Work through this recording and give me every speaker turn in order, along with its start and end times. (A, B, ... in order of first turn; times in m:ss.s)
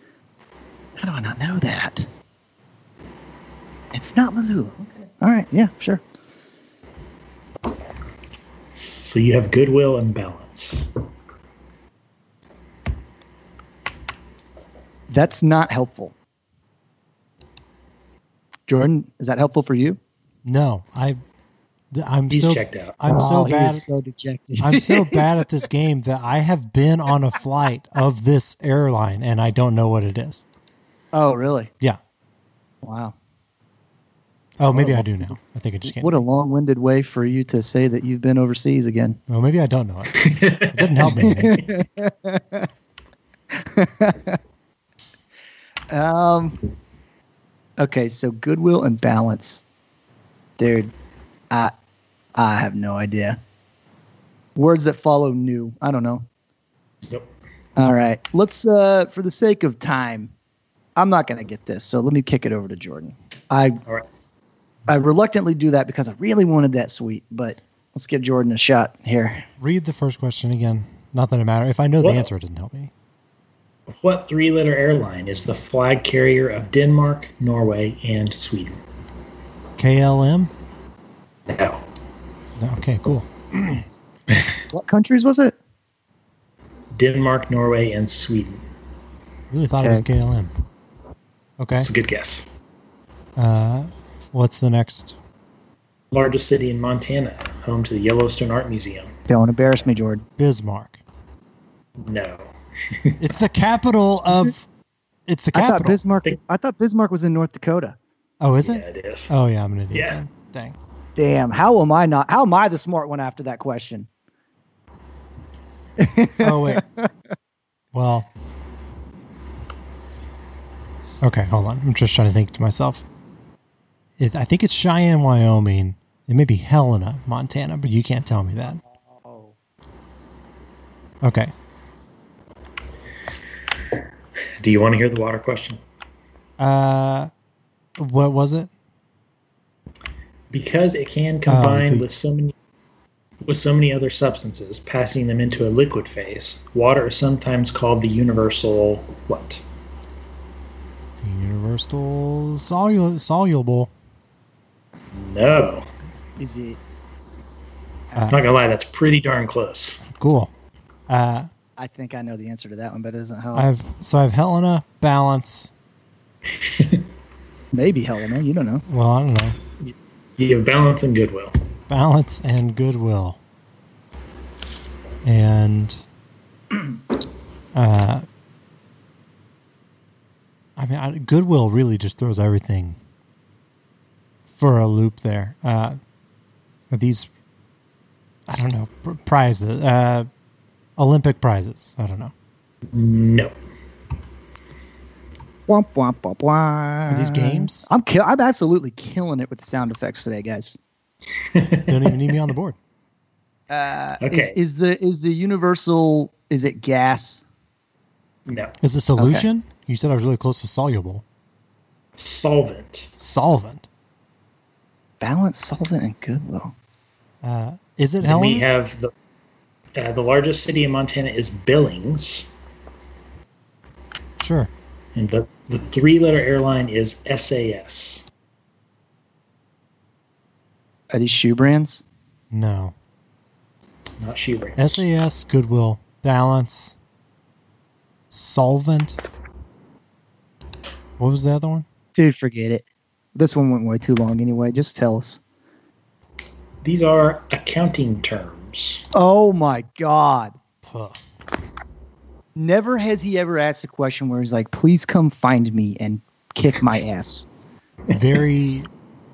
0:01.0-0:02.1 A
0:03.9-0:06.0 A
0:08.7-0:10.9 B
0:15.1-0:16.1 A
0:18.7-0:20.0 A
0:20.4-0:21.2 C
0:21.9-0:23.9 C
0:22.3-0:23.0 B
0:23.1-0:25.6 A
0:24.6-0:30.4 C
0:31.1-0:31.7 A
0:32.8-0:33.1 A
0:34.6-0:36.2 C
0:34.7-0:39.2 A
0:39.3-0:41.6 C
0:40.1-0:41.0 B
0:41.0-0:42.7 A
0:43.5-0:44.4 A
0:45.9-0:46.6 A
0:47.8-0:49.6 A
0:50.6-0:50.9 A
0:52.4-0:53.4 A
0:54.5-0:56.2 A
0:57.8-1:00.3 A
1:01.0-1:03.8 A
1:04.9-1:09.5 A
1:09.6-1:12.9 C
1:12.0-1:12.3 B
1:13.9-1:18.8 B
1:19.8-1:20.5 C
1:21.5-1:21.8 B
1:22.6-1:23.9 C
1:24.7-1:25.6 A
1:26.9-1:28.6 B
1:29.5-1:30.5 C
1:29.8-1:30.0 A
1:31.6-1:31.9 C
1:31.8-1:32.4 B
1:33.4-1:35.2 C
1:36.1-1:39.1 B
1:39.3-1:40.2 A
1:40.4-1:41.0 C
1:42.0-1:43.2 B
1:43.2-1:44.6 C
1:45.2-1:46.0 C
1:45.5-1:48.0 A
1:48.4-1:50.8 C
1:48.6-1:49.3 B
1:49.9-1:50.2 B
1:51.2-1:54.1 A
1:56.0-1:57.1 A
1:56.4-1:56.8 C
1:57.9-1:58.3 C
2:01.2-2:03.0 C
2:04.2-2:08.8 C
2:08.7-2:09.5 A
2:11.2-2:11.5 C
2:14.6-2:15.8 B
2:16.6-2:17.3 C
2:18.0-2:18.7 C
2:20.5-2:22.5 B
2:21.5-2:22.1 C
2:23.4-2:29.6 B
2:31.2-2:33.9 C
2:35.1-2:35.9 B
2:36.4-2:36.8 A
2:38.3-2:40.0 B
2:40.0-2:40.5 C
2:41.1-2:41.5 C
2:41.8-2:43.7 A
2:43.5-2:45.7 C
2:46.5-2:47.0 B
2:47.7-2:48.8 A
2:48.9-2:49.6 C
2:49.8-2:51.6 B
2:51.9-2:53.4 C
2:55.2-2:56.0 C
2:57.7-2:58.2 C
3:00.8-3:03.0 C
3:04.5-3:06.0 C
3:06.9-3:07.3 C
3:08.5-3:10.3 C
3:11.0-3:12.3 C
3:12.9-3:13.5 B
3:15.7-3:20.8 A
3:17.1-3:17.9 C
3:21.4-3:22.2 B
3:21.9-3:22.8 C
3:23.7-3:27.4 A
3:24.2-3:24.6 B
3:28.4-3:28.8 B
3:28.8-3:31.2 C
3:29.2-3:29.4 A
3:32.2-3:33.1 B
3:33.2-3:33.9 C
3:35.2-3:36.7 A
3:37.4-3:38.7 C
3:38.2-3:39.1 B
3:39.9-3:42.5 B
3:44.4-3:44.7 C
3:45.1-3:48.2 B
3:51.1-3:52.0 A
3:52.5-3:52.9 C
3:54.2-3:55.0 B
3:54.8-3:56.9 C
3:58.3-3:59.2 C
4:01.2-4:01.8 C
4:02.1-4:05.4 A
4:06.8-4:09.0 B
4:09.1-4:10.6 A
4:10.8-4:11.2 C
4:12.5-4:17.5 A
4:18.1-4:18.9 C